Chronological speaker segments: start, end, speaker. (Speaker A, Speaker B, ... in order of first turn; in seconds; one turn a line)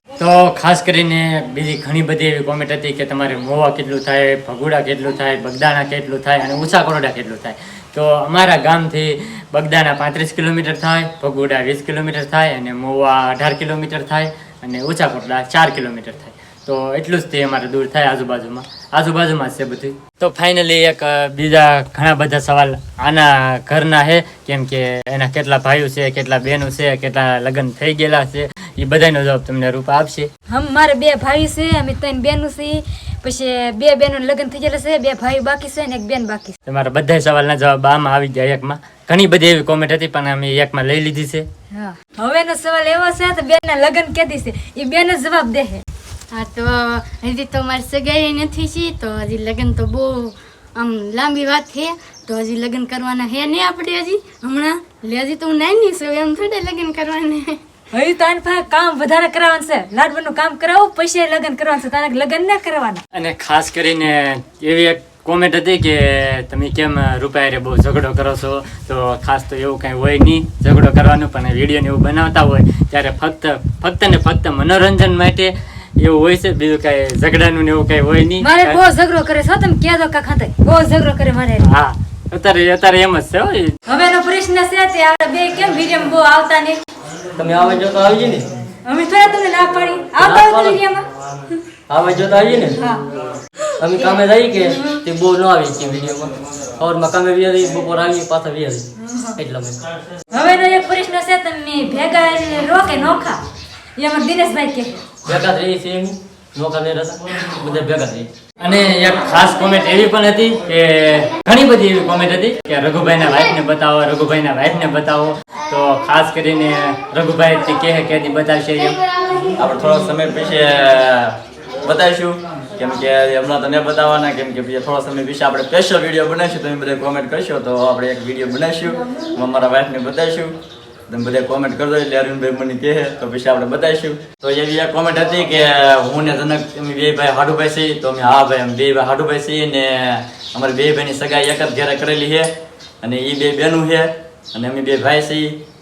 Speaker A: 0.2-30.3
Speaker B: 30.5-36.6
Speaker A: 36.7-41.5
Speaker B: 41.7-45.8
Speaker C: 46.3-57.6
Speaker B: 57.9-63.0
Speaker A: 63.1-78.8
Speaker B: 78.4-81.7
Speaker A: 81.6-83.8
Speaker B: 83.9-86.8
Speaker D: 87.3-88.5
Speaker B: 88.8-91.6
Speaker D: 90.2-90.8
Speaker D: 91.9-92.8
Speaker B: 92.8-93.0
Speaker D: 93.8-99.8
Speaker B: 94.7-95.0
Speaker B: 99.0-99.3
Speaker B: 100.3-103.4
Speaker B: 104.0-105.0
Speaker D: 105.3-108.3
Speaker A: 108.6-119.0
Speaker E: 119.6-130.6
Speaker E: 131.1-142.5
Speaker E: 143.0-145.6